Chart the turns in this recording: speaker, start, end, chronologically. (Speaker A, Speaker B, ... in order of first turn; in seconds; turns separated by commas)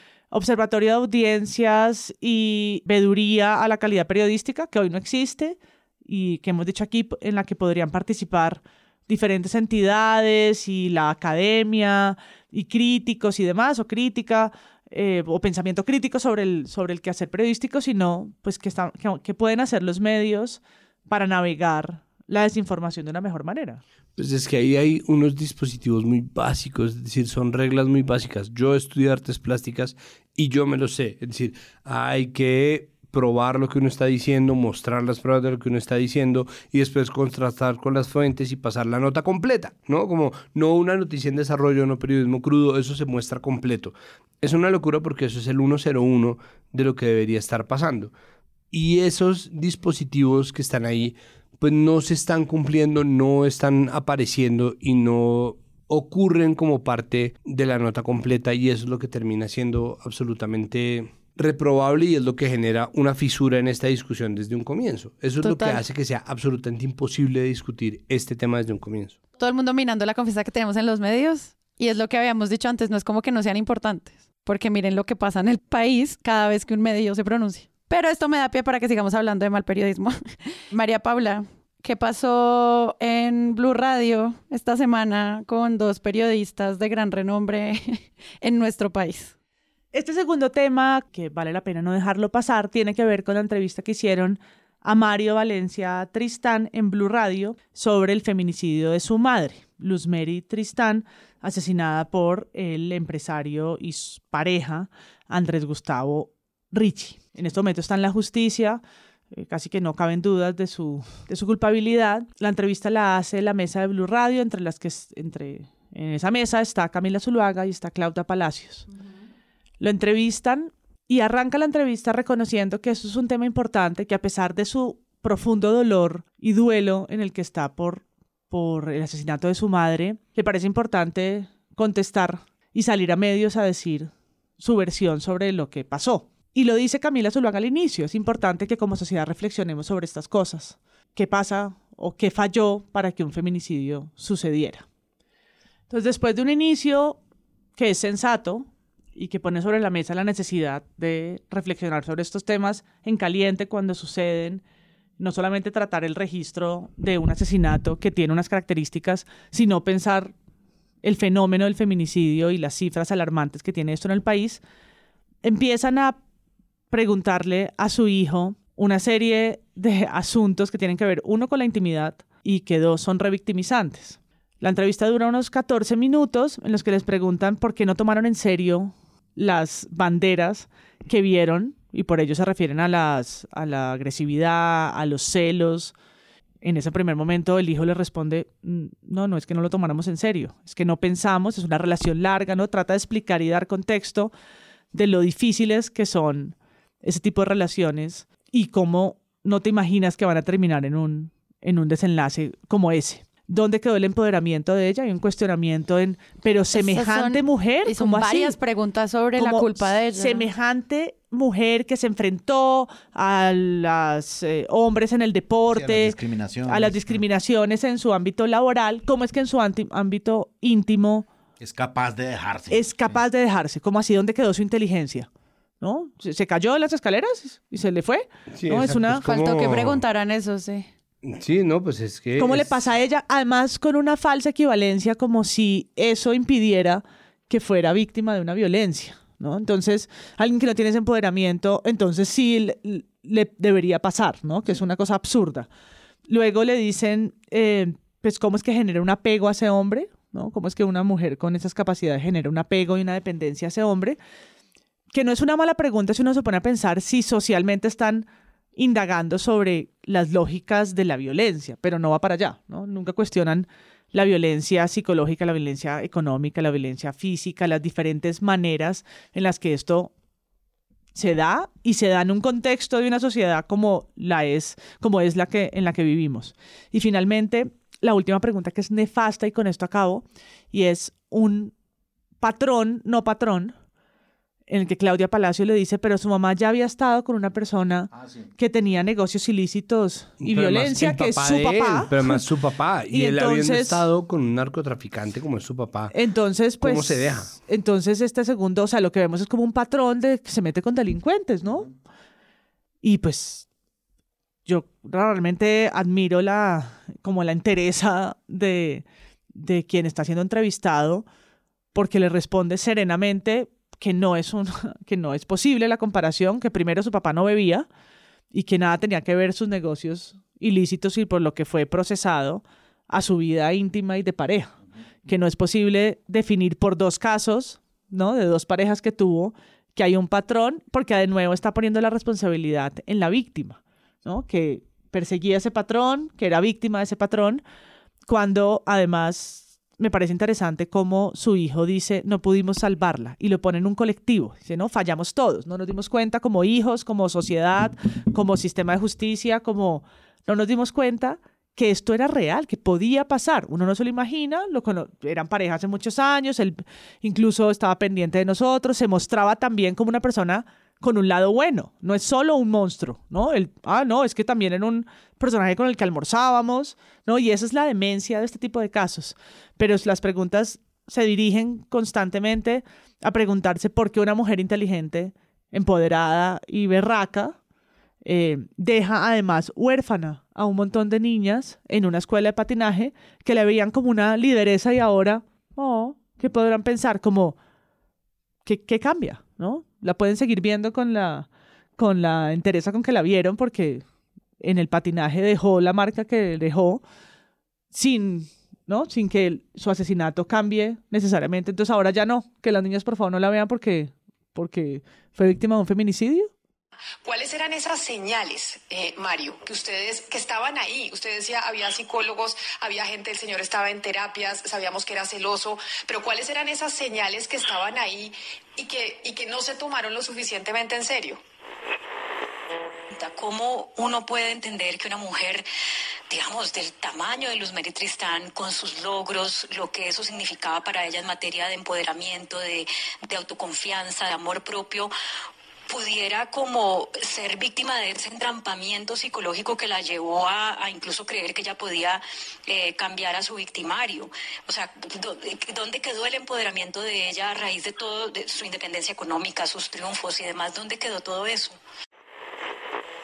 Speaker A: 0.3-23.8, Speaker B: 24.2-48.1, Speaker B: 48.7-69.2, Speaker C: 65.4-65.8, Speaker C: 69.4-80.2, Speaker C: 80.7-89.3, Speaker A: 89.9-108.8, Speaker A: 109.3-118.9, Speaker A: 119.8-144.8, Speaker A: 145.9-147.2, Speaker A: 147.8-154.6, Speaker A: 155.2-160.3, Speaker A: 161.0-164.6, Speaker A: 165.4-166.2, Speaker A: 166.9-185.9, Speaker A: 186.6-194.3, Speaker A: 194.9-208.6, Speaker C: 206.7-210.5, Speaker A: 209.4-221.3, Speaker D: 215.7-217.2, Speaker D: 221.6-223.2, Speaker A: 222.7-225.3, Speaker A: 225.8-229.2, Speaker B: 228.5-230.0, Speaker C: 229.2-230.9, Speaker B: 231.2-232.9, Speaker A: 232.4-245.7, Speaker A: 246.3-254.2, Speaker A: 255.1-270.1, Speaker A: 271.1-281.7, Speaker A: 282.4-283.7, Speaker A: 284.7-292.4, Speaker D: 288.1-288.5, Speaker B: 290.4-296.1, Speaker A: 293.1-294.0, Speaker A: 296.1-301.9, Speaker B: 296.8-297.5, Speaker A: 303.0-303.7, Speaker A: 304.6-311.2, Speaker A: 311.9-317.9, Speaker A: 318.5-324.7, Speaker A: 325.2-337.6, Speaker A: 338.2-377.6, Speaker A: 378.2-387.6, Speaker A: 388.6-394.0, Speaker A: 394.6-397.0, Speaker A: 397.9-406.5, Speaker E: 407.2-421.4, Speaker F: 423.1-425.6, Speaker F: 426.3-435.1, Speaker F: 435.9-451.8